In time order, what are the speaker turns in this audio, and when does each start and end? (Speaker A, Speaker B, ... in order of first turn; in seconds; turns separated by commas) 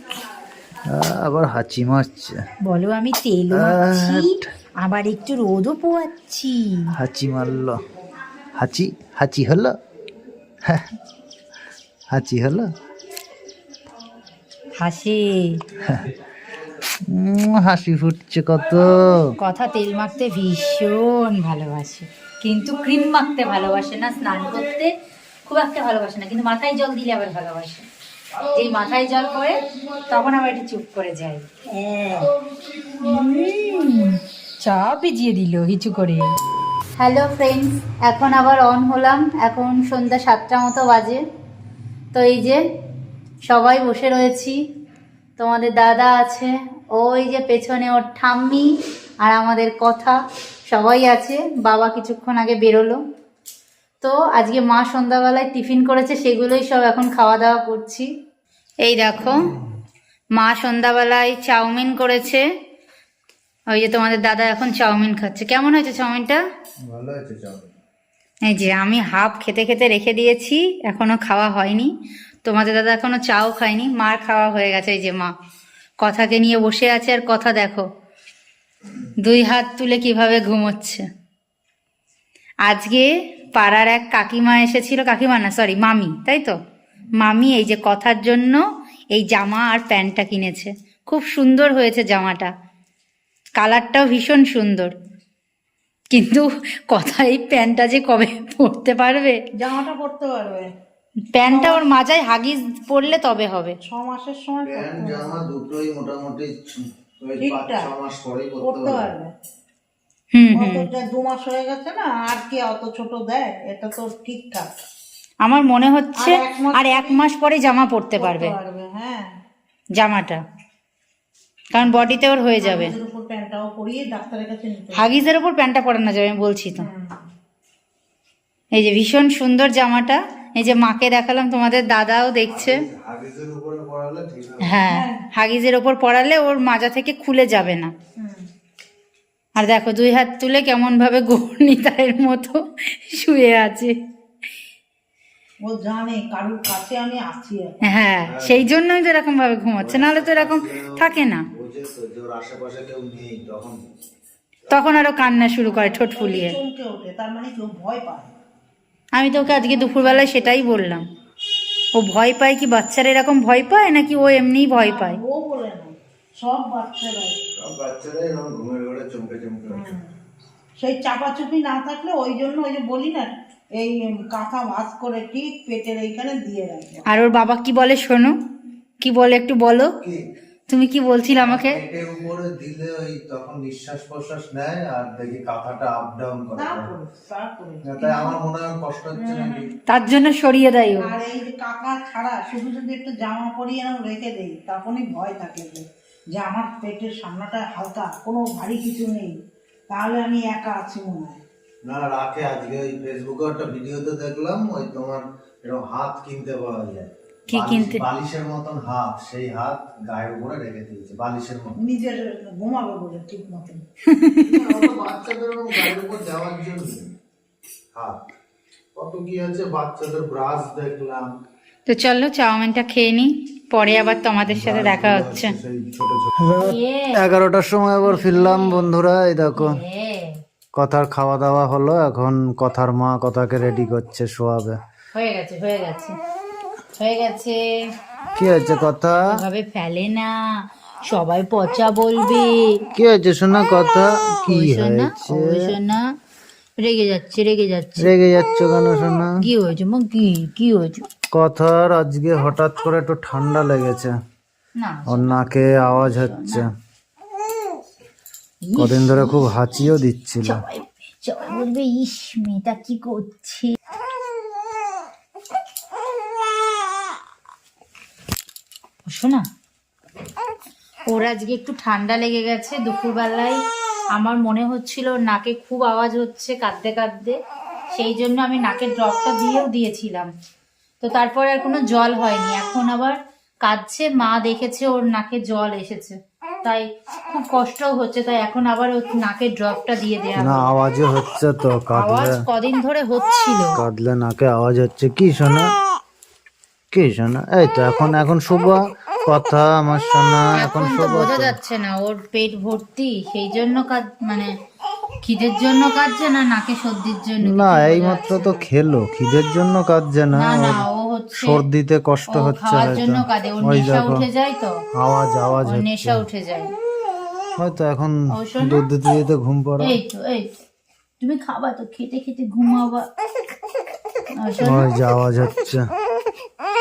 Speaker A: 0.9-2.4, Speaker B: 2.6-6.9, Speaker A: 3.5-4.4, Speaker A: 6.9-7.8, Speaker A: 8.5-9.7, Speaker A: 10.7-10.9, Speaker A: 12.1-12.7, Speaker B: 14.8-15.6, Speaker A: 15.8-16.1, Speaker A: 17.1-19.2, Speaker B: 19.4-24.9, Speaker B: 25.4-27.9, Speaker B: 28.5-32.3, Speaker B: 32.9-36.3, Speaker B: 37.0-41.2, Speaker B: 42.1-42.6, Speaker B: 43.4-44.6, Speaker B: 45.4-50.2, Speaker B: 50.7-53.0, Speaker B: 54.0-58.1, Speaker B: 58.8-59.5, Speaker A: 59.2-59.5, Speaker B: 60.3-62.4, Speaker B: 63.7-66.4, Speaker A: 66.9-67.7, Speaker B: 68.5-71.9, Speaker B: 72.4-75.3, Speaker B: 76.0-77.8, Speaker B: 79.2-81.0, Speaker B: 82.7-86.5, Speaker B: 87.2-88.6, Speaker B: 89.1-92.5, Speaker B: 93.6-94.9, Speaker B: 96.1-99.4, Speaker C: 99.6-100.7, Speaker B: 101.3-103.8, Speaker C: 101.5-101.9, Speaker C: 103.8-105.4, Speaker A: 104.6-109.1, Speaker C: 107.4-107.9, Speaker C: 108.6-109.3, Speaker B: 110.3-110.9, Speaker C: 110.5-114.7, Speaker B: 115.4-118.5, Speaker C: 116.2-117.2, Speaker C: 118.2-119.3, Speaker B: 119.9-120.4, Speaker B: 121.7-122.9, Speaker C: 121.8-125.2, Speaker B: 124.9-126.9, Speaker C: 126.8-127.2, Speaker B: 128.7-132.8, Speaker A: 132.5-134.8, Speaker B: 134.6-137.9, Speaker C: 134.8-135.2, Speaker C: 138.2-138.4, Speaker B: 139.6-143.9, Speaker C: 145.6-147.7, Speaker B: 147.8-151.4, Speaker A: 148.2-148.7, Speaker A: 149.8-153.8, Speaker B: 154.7-156.6, Speaker C: 155.7-158.3, Speaker B: 159.1-161.1, Speaker C: 159.5-161.0, Speaker B: 161.9-165.2, Speaker C: 164.7-167.4, Speaker A: 167.6-169.9, Speaker C: 169.7-170.1, Speaker C: 170.8-177.1, Speaker B: 177.1-178.3, Speaker B: 179.0-179.9, Speaker B: 180.7-181.8, Speaker A: 181.3-186.9, Speaker C: 186.5-188.4, Speaker A: 187.8-189.7, Speaker C: 189.1-189.6, Speaker B: 189.9-191.1, Speaker C: 190.9-199.3, Speaker C: 199.9-201.4, Speaker A: 201.8-211.8, Speaker B: 207.5-208.0, Speaker C: 211.8-213.8, Speaker B: 214.1-214.9, Speaker A: 214.3-217.1, Speaker A: 217.9-218.2, Speaker A: 218.9-221.3, Speaker B: 221.9-225.5, Speaker A: 224.5-229.8, Speaker B: 226.5-227.3, Speaker B: 228.0-228.9, Speaker B: 229.5-230.4, Speaker A: 230.7-234.8, Speaker B: 235.1-236.2, Speaker B: 236.9-237.7, Speaker A: 238.3-239.2, Speaker B: 239.3-242.8, Speaker A: 242.9-245.7, Speaker B: 244.4-246.0, Speaker B: 246.8-248.1, Speaker A: 248.0-249.4, Speaker B: 249.4-251.1, Speaker A: 251.3-254.1, Speaker B: 254.8-256.6, Speaker A: 255.1-256.7, Speaker B: 258.6-259.9, Speaker A: 258.8-260.6, Speaker B: 260.4-263.8, Speaker B: 269.1-269.4, Speaker B: 271.1-273.6, Speaker B: 274.1-277.4, Speaker B: 277.9-280.3, Speaker B: 281.0-290.7, Speaker A: 290.4-292.4, Speaker B: 291.9-293.8, Speaker A: 293.8-295.6, Speaker A: 296.9-301.5, Speaker B: 300.6-304.5, Speaker B: 305.2-308.7, Speaker A: 307.4-314.3, Speaker B: 310.3-311.6, Speaker B: 312.3-314.8, Speaker A: 314.9-316.2, Speaker B: 315.6-316.7, Speaker A: 317.6-320.0, Speaker B: 318.3-318.9, Speaker B: 319.8-320.5, Speaker B: 321.2-323.1, Speaker B: 324.4-324.9, Speaker A: 324.6-325.9